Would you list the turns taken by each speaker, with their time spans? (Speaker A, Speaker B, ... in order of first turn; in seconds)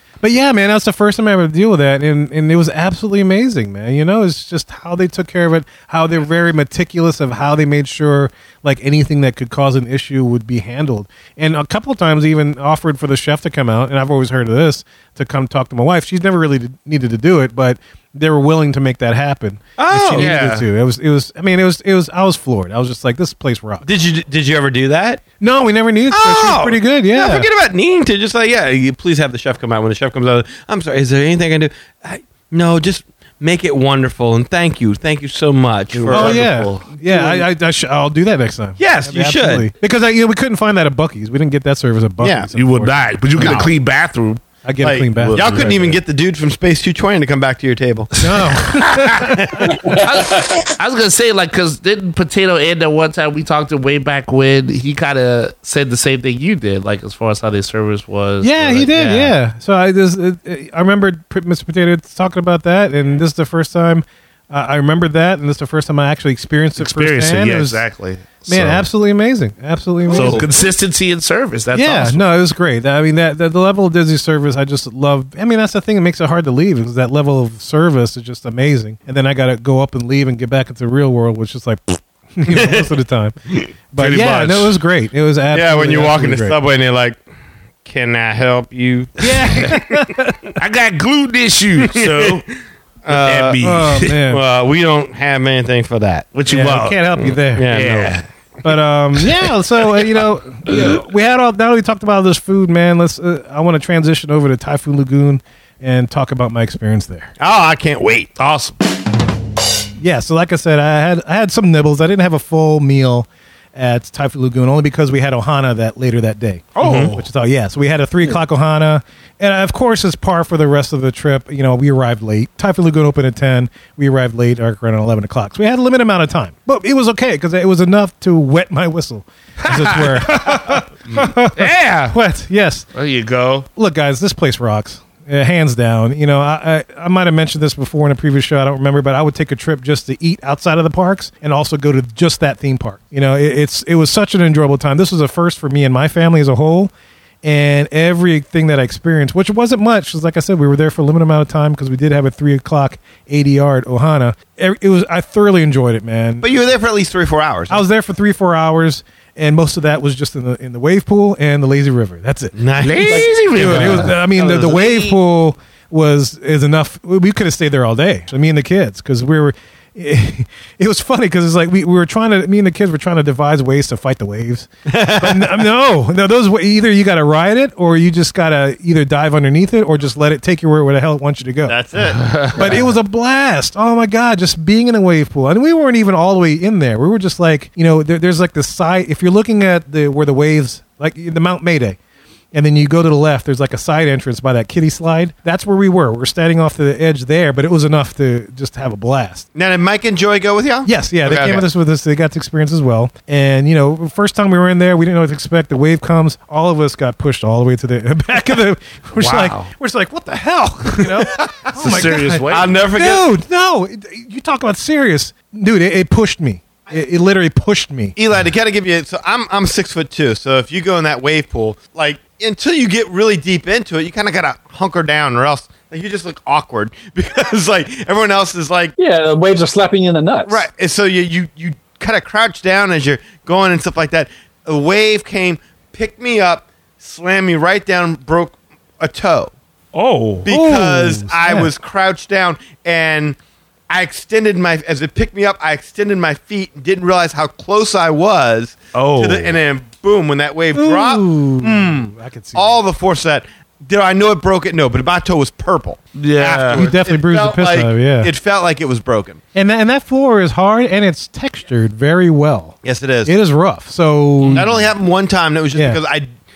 Speaker A: 0.2-23.9, 25.4-27.5, 36.1-43.7, 44.6-46.0, 48.2-49.8, 58.4-67.8, 68.5-70.5, 71.7-83.3, 83.9-86.6, 89.2-90.5, 93.6-94.4, 96.5-97.7, 98.6-107.3, 110.0-132.9, 133.8-146.9, 147.4-156.5, 157.7-181.8, 182.6-192.0, 192.5-199.4, 200.9-218.2, 240.5-241.7, 250.7-252.8, 256.7-258.3, 259.6-264.6, 265.7-266.0
Speaker B: 19.8-20.4, 23.8-25.2, 26.1-37.5, 38.8-39.7, 42.2-42.5, 43.4-43.7, 44.8-48.1, 49.4-49.7, 70.1-70.5, 82.5-82.9, 85.5-87.2, 87.8-89.9, 91.8-92.5, 93.0-93.6, 94.3-96.3, 97.5-98.2, 107.4-108.3, 116.8-117.2, 156.4-157.8, 162.5-165.2, 174.9-175.7, 181.7-182.8, 199.6-201.7, 211.0-211.7, 212.5-213.3, 218.2-228.9, 230.5-239.5, 240.4-243.4, 243.9-259.4, 262.8-263.3, 264.5-266.3
Speaker C: 20.1-20.6, 35.9-36.8, 42.5-44.4, 45.2-45.7, 48.8-49.2, 49.9-59.3, 66.8-68.9, 70.1-72.2, 84.0-84.7, 90.6-92.4, 93.1-94.1, 96.3-98.3, 100.7-101.0, 108.4-108.8, 116.8-117.1, 129.6-132.2, 132.9-133.7, 162.8-164.1, 182.0-182.8, 209.2-209.7, 211.7-212.8, 239.9-240.5, 248.9-249.6, 256.2-256.9, 264.4-264.8
Speaker D: 49.8-50.6, 229.0-230.6